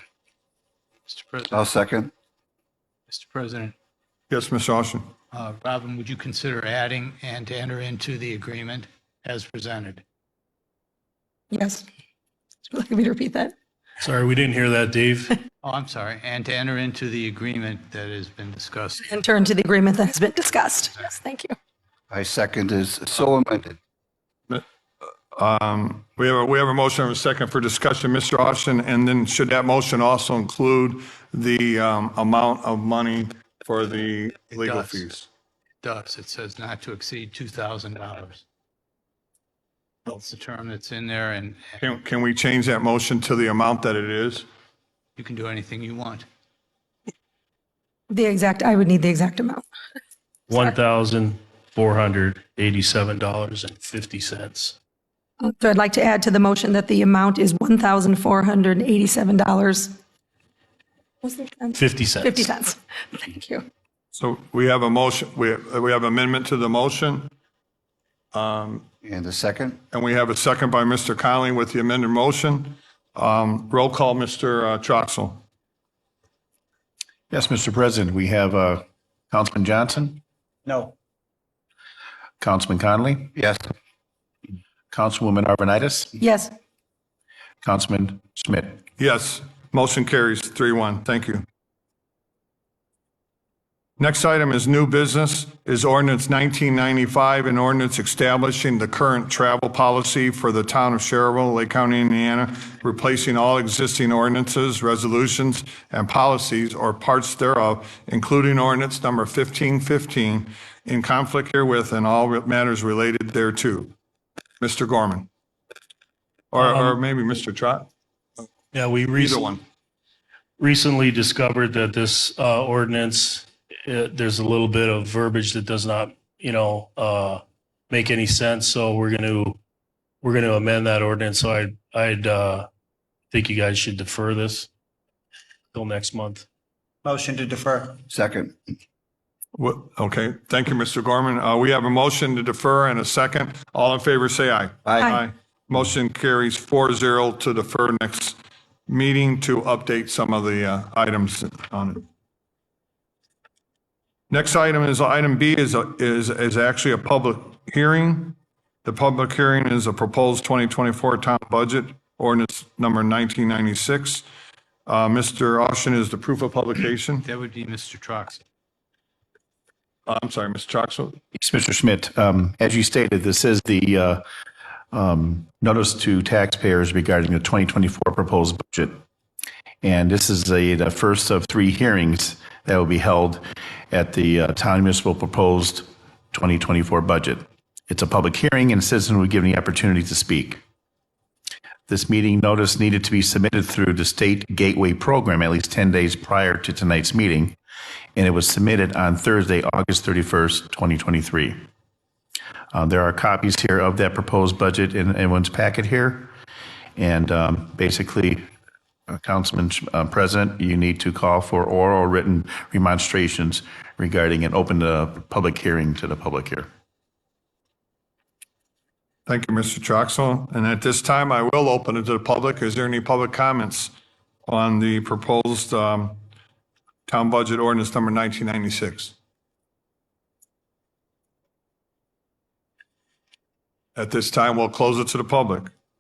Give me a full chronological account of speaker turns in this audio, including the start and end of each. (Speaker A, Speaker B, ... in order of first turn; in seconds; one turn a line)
Speaker A: 1.1-1.7
Speaker B: 1.5-2.1
Speaker A: 3.1-3.7
Speaker C: 4.3-5.1
Speaker A: 5.3-10.0
Speaker D: 11.5-11.8
Speaker D: 12.7-13.5
Speaker E: 14.0-15.3
Speaker A: 15.6-19.2
Speaker D: 19.0-21.5
Speaker B: 22.1-23.8
Speaker C: 25.4-35.3
Speaker A: 34.5-35.1
Speaker A: 35.8-38.4
Speaker A: 40.1-41.8
Speaker C: 41.8-44.5
Speaker A: 45.2-46.3
Speaker D: 48.1-49.7
Speaker E: 50.5-54.8
Speaker D: 55.4-60.0
Speaker D: 61.2-63.7
Speaker E: 61.8-62.5
Speaker C: 64.1-67.3
Speaker C: 68.3-68.9
Speaker B: 69.0-69.8
Speaker C: 69.9-75.4
Speaker F: 77.3-80.2
Speaker F: 82.4-83.3
Speaker B: 83.4-83.6
Speaker F: 84.9-86.2
Speaker D: 86.2-86.5
Speaker F: 87.6-88.8
Speaker C: 89.0-91.4
Speaker C: 94.0-113.9
Speaker C: 114.6-115.3
Speaker C: 116.5-117.9
Speaker E: 116.6-117.0
Speaker E: 118.7-119.6
Speaker C: 119.1-119.6
Speaker E: 120.6-129.6
Speaker E: 130.2-132.7
Speaker E: 133.3-134.7
Speaker E: 135.7-136.4
Speaker B: 138.1-138.5
Speaker C: 139.6-152.0
Speaker C: 154.3-164.2
Speaker C: 164.9-167.3
Speaker A: 167.2-168.4
Speaker C: 170.1-171.2
Speaker F: 171.3-174.2
Speaker F: 174.9-179.0
Speaker F: 179.8-190.6
Speaker F: 191.9-197.6
Speaker F: 198.2-201.6
Speaker F: 202.7-206.3
Speaker F: 207.0-208.4
Speaker F: 209.1-216.7
Speaker C: 219.3-223.9
Speaker C: 224.5-226.2
Speaker C: 227.1-229.1
Speaker C: 234.0-235.7